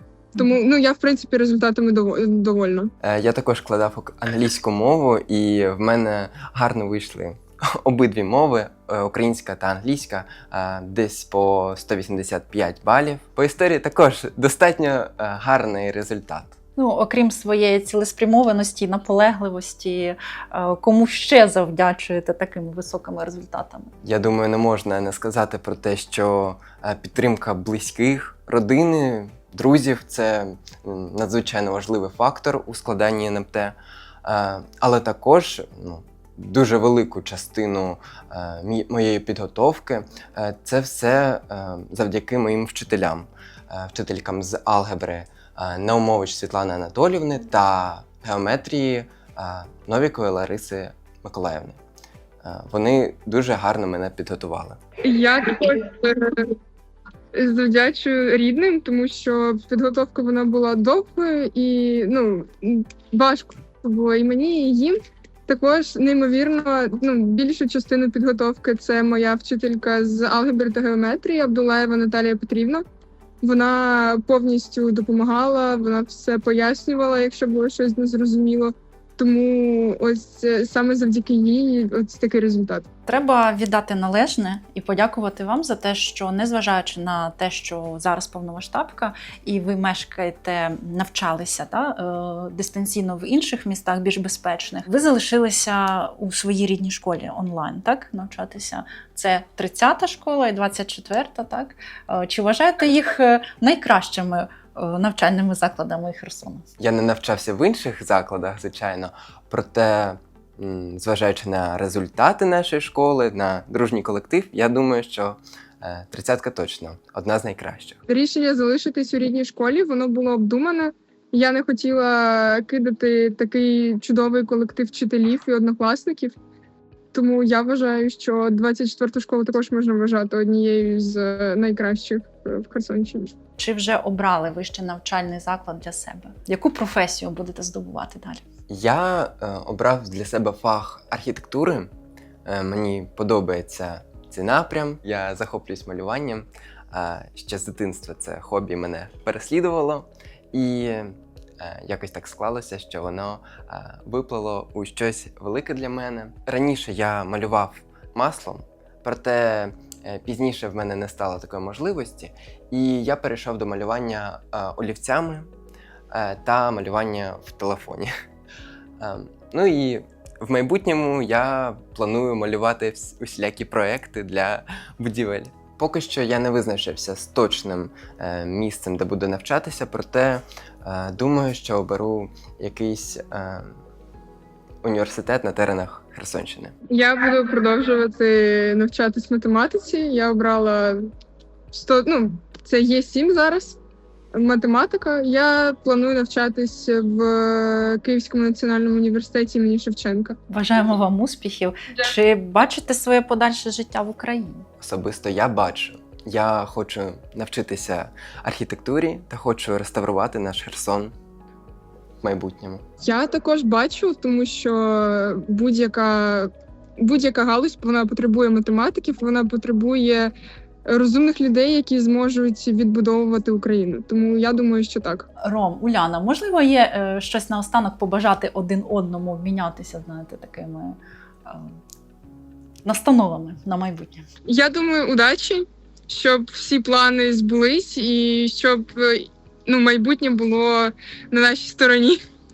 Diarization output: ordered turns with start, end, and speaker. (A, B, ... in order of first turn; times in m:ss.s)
0:00.4-0:02.9 A
0:03.0-0:16.6 B
0:16.8-0:23.9 C
0:24.0-0:51.8 B
0:52.4-0:54.8 B
0:55.0-0:56.5 A
0:57.3-1:12.8 A
1:13.4-1:22.9 A
1:23.1-1:46.7 C
1:46.8-1:58.0 B
1:58.1-2:06.4 A
2:07.1-2:13.4 A
2:13.6-2:18.4 C
2:18.7-2:21.9 B
2:22.4-2:45.5 B
2:46.1-2:48.1 B
2:49.0-3:03.8 B
3:04.8-3:06.8 B
3:06.9-3:11.1 A
3:11.7-3:13.8 A
3:14.3-3:20.4 A
3:20.5-3:24.6 C
3:24.8-3:31.1 B
3:32.2-3:32.8 B
3:33.0-3:40.3 A
3:40.8-3:45.3 A
3:45.4-3:51.8 C
3:52.8-3:54.3 C
3:54.5-4:02.2 A